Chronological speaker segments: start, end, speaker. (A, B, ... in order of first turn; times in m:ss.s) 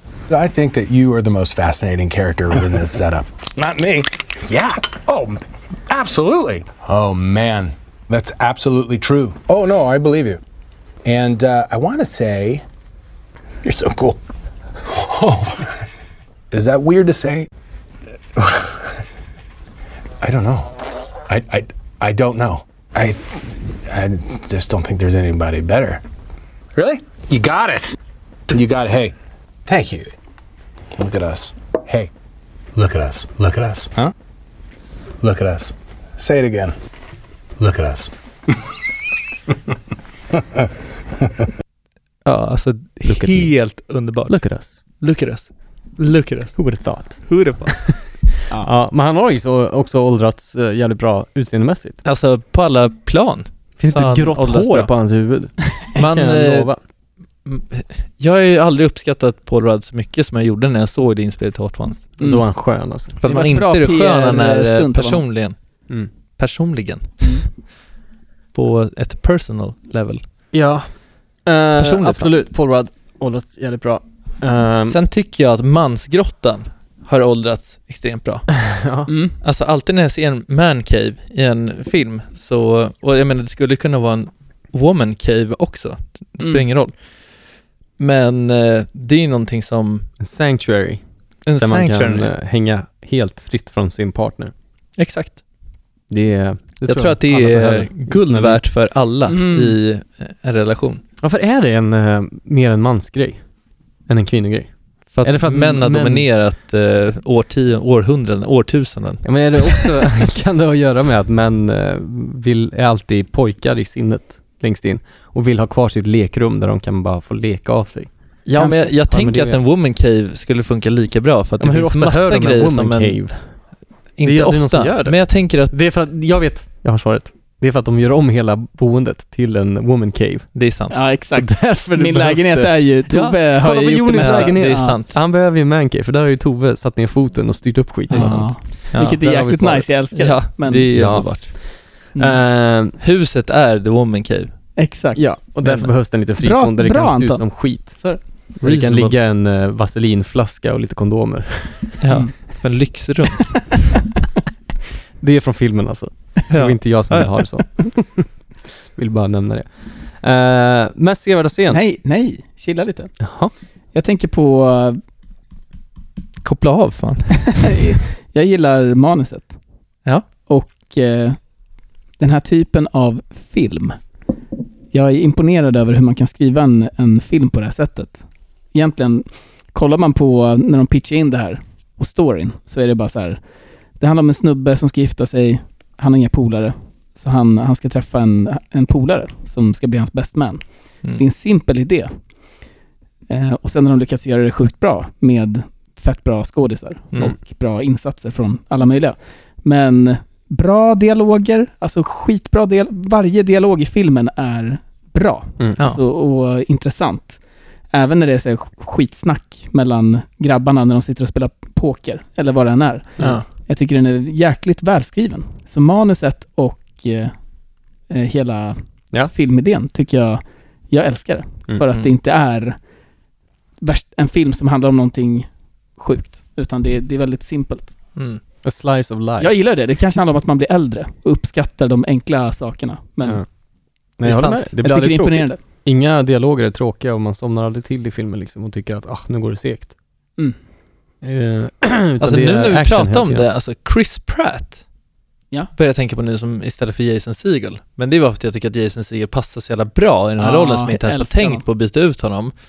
0:00.3-0:10.4 A
0:11.0-0:12.6 A
0:13.6-0:14.2 A
0:14.8-0:15.7 A
0:16.5-0:17.5 A
0:18.4-0:18.8 A
0:20.2-0:26.0 A
0:26.7-0:28.0 A
0:28.5-0:29.1 A
0:29.6-0:30.1 A
0:31.0-0:32.1 A
0:32.7-0:33.9 A
0:35.2-0:36.7 A
0:37.6-0:38.1 A
0:42.2-0:44.4 B
0:43.0-0:43.6 C
0:44.3-0:44.8 C
0:45.0-0:46.6 B
0:46.6-0:47.3 C
0:47.2-0:47.8 B
0:48.6-0:52.0 C
0:52.0-0:54.9 B
0:53.8-0:56.8 C
0:55.9-0:56.7 B
0:57.4-1:02.1 B
1:02.2-1:03.1 C
1:03.2-1:05.6 B
1:03.2-1:05.2 D
1:06.4-1:07.4 B
1:08.5-1:10.2 B
1:10.5-1:10.9 C
1:11.4-1:15.0 C
1:11.8-1:12.3 B
1:14.9-1:18.7 B
1:18.7-1:19.1 C
1:19.1-1:19.4 D
1:19.4-1:26.9 B
1:26.4-1:26.6 D
1:28.0-1:30.1 B
1:30.2-1:31.0 C
1:31.4-1:32.3 B
1:31.6-1:34.5 C
1:35.0-1:35.4 B
1:36.1-1:38.6 C
1:36.8-1:41.0 B
1:39.3-1:39.8 D
1:41.2-1:43.4 C
1:44.1-1:46.3 C
1:45.1-1:49.9 B
1:49.2-1:59.6 C
1:58.4-2:03.2 B
1:58.6-1:58.9 D
2:01.6-2:03.5 C
2:04.2-2:05.7 B
2:04.2-2:10.5 C
2:10.5-2:11.0 B
2:10.9-2:15.0 D
2:11.3-2:12.8 C
2:13.1-2:15.2 B
2:13.6-2:19.9 C
2:18.1-2:20.9 D
2:18.1-2:19.2 B
2:20.1-2:21.5 B
2:20.9-2:23.0 C
2:23.0-2:24.5 B
2:24.8-2:25.2 D
2:25.1-2:32.0 C
2:25.6-2:25.9 B
2:26.4-2:28.2 D
2:28.6-2:29.2 B
2:32.0-2:33.8 B
2:32.1-2:32.3 D
2:35.2-2:38.3 C
2:36.5-2:37.6 B
2:39.0-2:41.8 C
2:41.7-2:43.2 D
2:43.2-2:43.5 C
2:43.9-2:45.0 D
2:46.4-2:47.7 B
2:47.5-2:49.6 D
2:50.4-2:51.4 D
2:52.2-2:54.0 D
2:54.9-2:58.2 D
2:58.7-3:03.4 D
3:04.0-3:12.1 D
3:13.3-3:37.3 D
3:33.2-3:33.4 B
3:38.1-3:42.8 D
3:43.8-3:47.9 D
3:48.2-3:48.4 B
3:48.6-3:49.5 C
3:49.4-3:53.4 D
3:54.2-3:59.9 C
3:54.2-3:54.7 B
3:54.8-3:55.6 D
4:01.2-4:03.4 C
4:02.2-4:04.8 B
4:05.8-4:12.5 B
4:10.4-4:11.6 D